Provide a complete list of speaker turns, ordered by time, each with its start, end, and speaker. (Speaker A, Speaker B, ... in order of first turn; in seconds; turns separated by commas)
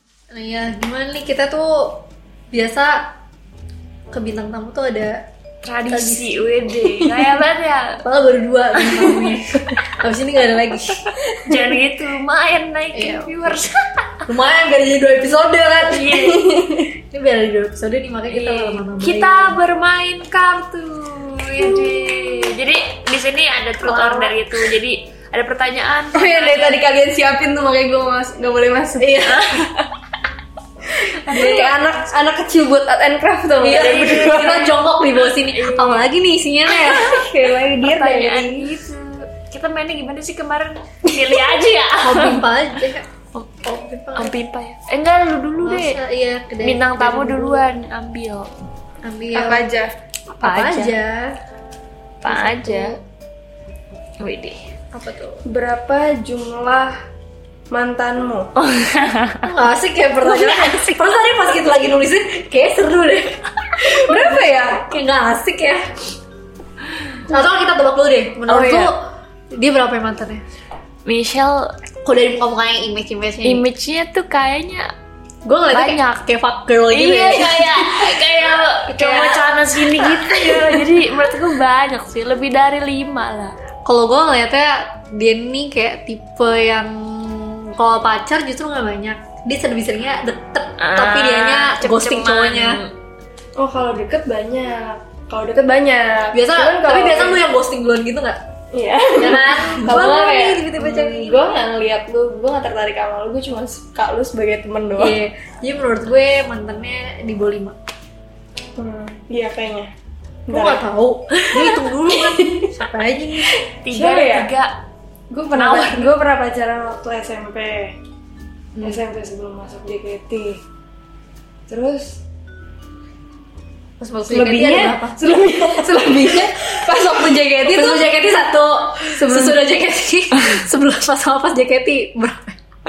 Speaker A: 0.3-3.1, Speaker A: 4.1-5.2, Speaker B: 5.6-8.0, Speaker A: 5.9-6.4, Speaker A: 8.0-11.2, Speaker B: 8.8-9.2, Speaker B: 11.4-14.2, Speaker A: 12.9-13.5, Speaker A: 14.3-16.2, Speaker B: 15.9-16.5, Speaker C: 16.2-16.9, Speaker A: 17.1-19.6, Speaker B: 18.3-26.9, Speaker A: 23.8-24.4, Speaker C: 26.1-29.2, Speaker A: 29.0-29.5, Speaker B: 29.2-29.9, Speaker C: 31.0-34.8, Speaker B: 31.3-32.0, Speaker A: 33.6-37.2, Speaker B: 33.7-36.1, Speaker B: 36.7-37.2, Speaker C: 37.0-38.7, Speaker B: 37.8-42.5, Speaker A: 42.0-43.1, Speaker B: 43.4-43.6, Speaker A: 43.6-44.4, Speaker B: 44.2-46.0, Speaker A: 45.6-47.7, Speaker B: 46.6-48.5, Speaker A: 49.0-49.7, Speaker C: 49.3-49.9, Speaker A: 50.3-51.4, Speaker B: 50.4-50.9, Speaker B: 52.2-53.0, Speaker A: 52.3-52.9, Speaker B: 54.2-54.7, Speaker A: 54.9-55.4, Speaker C: 55.5-57.0, Speaker C: 57.7-58.5, Speaker B: 58.6-59.5, Speaker A: 59.5-65.8, Speaker B: 60.3-61.0, Speaker C: 63.8-64.8, Speaker A: 67.3-70.4, Speaker C: 68.5-68.9, Speaker B: 71.0-71.7, Speaker A: 72.0-73.6, Speaker B: 73.4-74.9, Speaker A: 75.5-78.0, Speaker B: 75.7-76.2, Speaker B: 76.9-83.6, Speaker A: 78.9-80.7, Speaker A: 83.9-92.8, Speaker B: 90.8-92.9, Speaker C: 93.6-97.4, Speaker A: 96.3-98.4, Speaker C: 98.7-105.2, Speaker A: 99.2-101.7, Speaker A: 105.0-107.8, Speaker C: 108.8-109.9, Speaker C: 110.5-110.9, Speaker A: 110.5-113.5, Speaker C: 112.1-112.7, Speaker C: 113.5-114.5, Speaker B: 113.8-114.8, Speaker C: 115.3-118.0, Speaker B: 115.5-116.2, Speaker C: 118.8-120.6, Speaker C: 121.7-122.2, Speaker A: 124.0-126.5, Speaker C: 124.3-128.2, Speaker A: 127.6-132.6, Speaker C: 129.1-129.6